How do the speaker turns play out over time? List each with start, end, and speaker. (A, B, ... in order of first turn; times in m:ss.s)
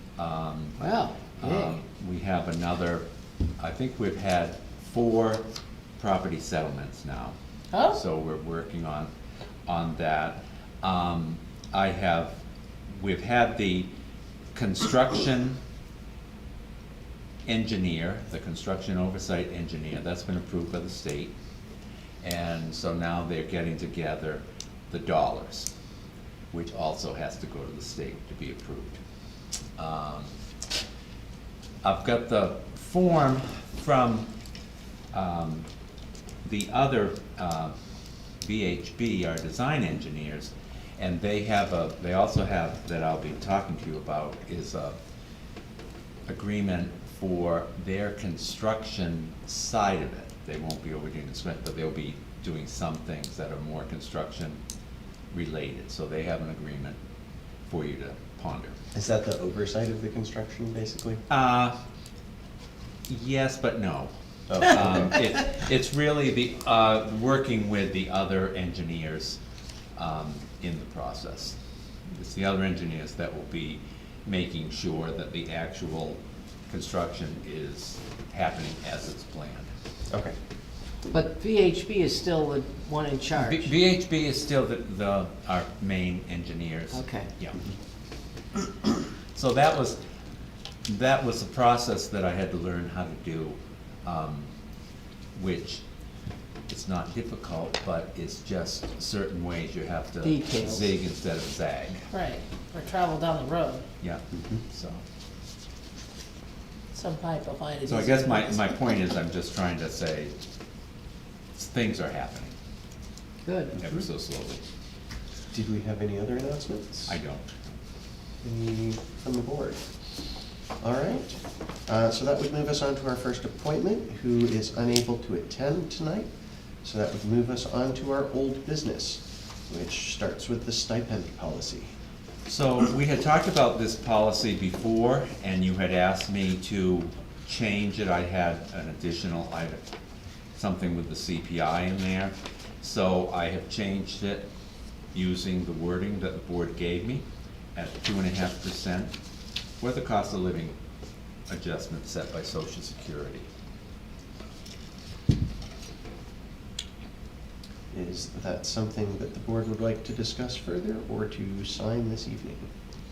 0:00.2-0:00.8 A
0:00.8-0:01.8 B
0:01.4-0:03.0 A
0:03.6-0:05.4 A
0:06.0-0:09.1 A
0:07.7-0:08.0 C
0:09.6-0:13.9 A
0:14.5-0:15.6 A
0:17.4-0:21.3 A
0:22.2-0:25.7 A
0:26.5-0:29.0 A
0:29.8-0:30.3 A
0:31.8-0:34.3 A
0:35.1-0:35.7 A
0:36.4-0:37.7 A
0:38.4-0:45.0 A
0:46.3-0:54.6 A
0:55.3-0:57.0 A
0:57.7-0:58.8 A
0:58.9-1:01.2 D
1:01.3-1:01.7 A
1:03.1-1:09.4 A
1:04.5-1:05.2 D
1:10.0-1:11.6 A
1:12.1-1:19.7 A
1:20.1-1:20.3 D
1:21.1-1:23.7 B
1:23.4-1:27.6 A
1:26.9-1:27.3 B
1:29.3-1:30.0 A
1:30.9-1:34.5 A
1:35.3-1:35.8 A
1:36.7-1:42.0 A
1:40.2-1:40.9 B
1:42.1-1:43.8 C
1:44.0-1:45.0 A
1:44.3-1:44.6 D
1:46.9-1:48.9 C
1:47.8-1:50.3 A
1:51.6-1:52.6 A
1:53.4-1:53.8 B
1:53.8-1:54.6 A
1:55.5-1:57.1 D
1:57.1-1:57.8 A
1:58.4-1:59.8 D
2:00.8-2:01.3 D
2:01.9-2:06.3 D
2:06.8-2:11.9 D
2:12.4-2:19.8 A
2:20.5-2:24.5 A
2:25.1-2:27.2 A
2:27.7-2:29.1 A
2:29.8-2:30.7 A
2:31.5-2:33.5 A
2:37.9-2:42.7 D